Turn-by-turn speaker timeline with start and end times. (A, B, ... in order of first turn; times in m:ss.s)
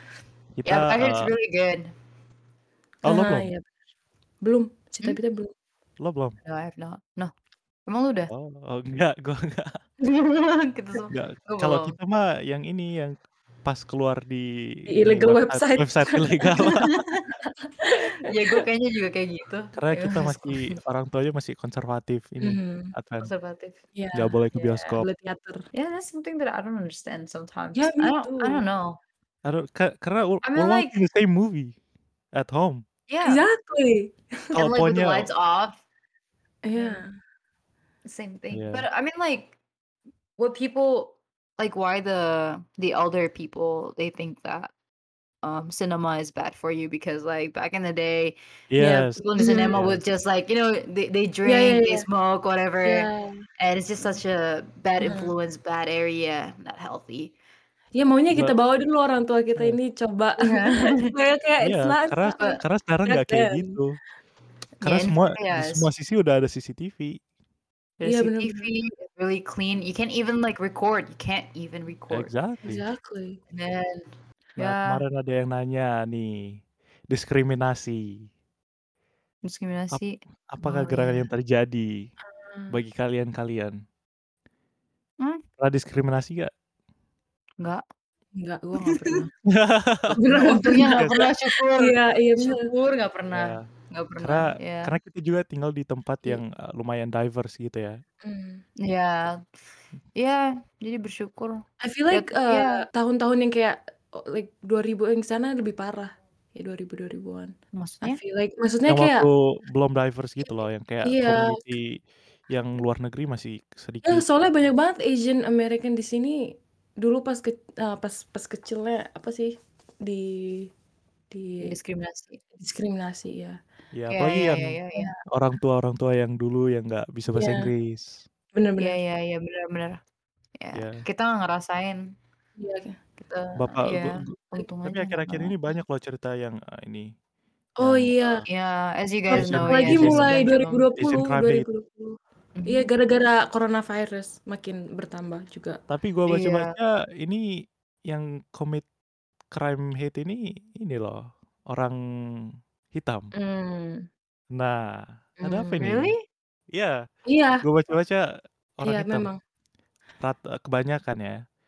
0:00.6-0:01.3 A
0:00.6-0:01.9 B
0:03.0-0:03.5 A
0:03.0-0:03.6 C
0:04.4-0:05.5 C
0:06.0-0:06.4 A
0:06.4-0:07.3 B
0:07.9-0:08.3 B
0:08.3-0:09.8 A
0:10.0-0:12.0 B
0:11.1-0:16.9 A
0:14.9-0:16.8 C
0:16.6-0:17.3 B
0:17.5-0:18.6 C
0:18.0-0:20.8 B
0:19.8-0:23.3 A
0:22.4-0:22.9 C
0:23.2-0:23.8 B
0:24.0-0:24.4 C
0:24.1-0:25.1 A
0:24.6-0:25.0 B
0:25.0-0:25.6 C
0:25.7-0:29.0 B
0:27.8-0:28.6 C
0:29.4-0:31.8 A
0:30.4-0:31.0 B
0:32.3-0:32.8 A
0:33.1-0:33.4 B
0:33.2-0:34.6 C
0:34.5-0:35.3 A
0:34.5-0:35.8 B
0:36.6-0:37.1 C
0:36.7-0:37.0 B
0:38.1-0:39.6 B
0:38.5-0:38.8 A
0:40.4-0:44.7 B
0:45.4-0:53.1 B
0:48.7-0:49.2 A
0:48.8-0:49.8 C
0:49.7-0:50.0 A
0:51.4-0:52.1 C
0:52.8-0:53.4 C
0:53.6-0:57.4 B
0:55.0-0:55.3 C
0:58.0-1:03.8 C
1:00.4-1:01.1 B
1:01.6-1:04.0 A
1:02.4-1:02.6 B
1:04.8-1:05.9 B
1:04.8-1:07.2 A
1:08.0-1:12.3 B
1:08.0-1:08.7 C
1:12.1-1:12.8 A
1:12.6-1:13.4 C
1:13.5-1:15.0 B
1:14.6-1:18.3 A
1:19.4-1:21.3 B
1:19.9-1:22.1 A
1:22.4-1:22.8 C
1:22.7-1:23.8 A
1:25.6-1:26.5 A
1:28.4-1:29.3 C
1:28.8-1:29.2 B
1:29.5-1:31.2 A
1:30.2-1:32.7 C
1:30.4-1:34.9 B
1:33.3-1:33.7 A
1:34.2-1:38.0 A
1:38.2-1:38.6 C
1:38.8-1:39.4 B
1:40.2-1:42.8 B
1:41.8-1:49.3 C
1:47.7-1:48.2 B
1:48.9-1:54.3 A
1:51.0-1:51.6 C
1:54.0-2:00.7 C
2:01.3-2:01.8 C
2:01.6-2:02.4 B
2:02.6-2:03.6 C
2:03.9-2:08.2 A
2:04.1-2:05.2 B
2:07.4-2:07.7 C
2:08.5-2:09.0 C
2:08.8-2:10.0 B
2:10.6-2:12.2 B
2:10.8-2:11.0 A
2:12.6-2:13.0 C
2:13.2-2:15.6 B
2:13.6-2:17.1 A
2:17.8-2:18.4 C
2:17.8-2:18.5 A
2:18.5-2:20.9 B
2:19.3-2:25.8 C
2:19.3-2:20.4 A
2:21.0-2:21.6 A
2:22.6-2:22.9 B
2:25.9-2:28.8 A
2:26.3-2:26.8 B
2:29.5-2:33.3 A
2:33.4-2:34.1 C
2:34.5-2:36.1 A
2:35.4-2:35.8 C
2:35.8-2:36.2 B
2:36.7-2:37.0 A
2:37.3-2:37.6 C
2:37.6-2:39.3 A
2:38.8-2:39.4 C
2:40.2-2:41.4 A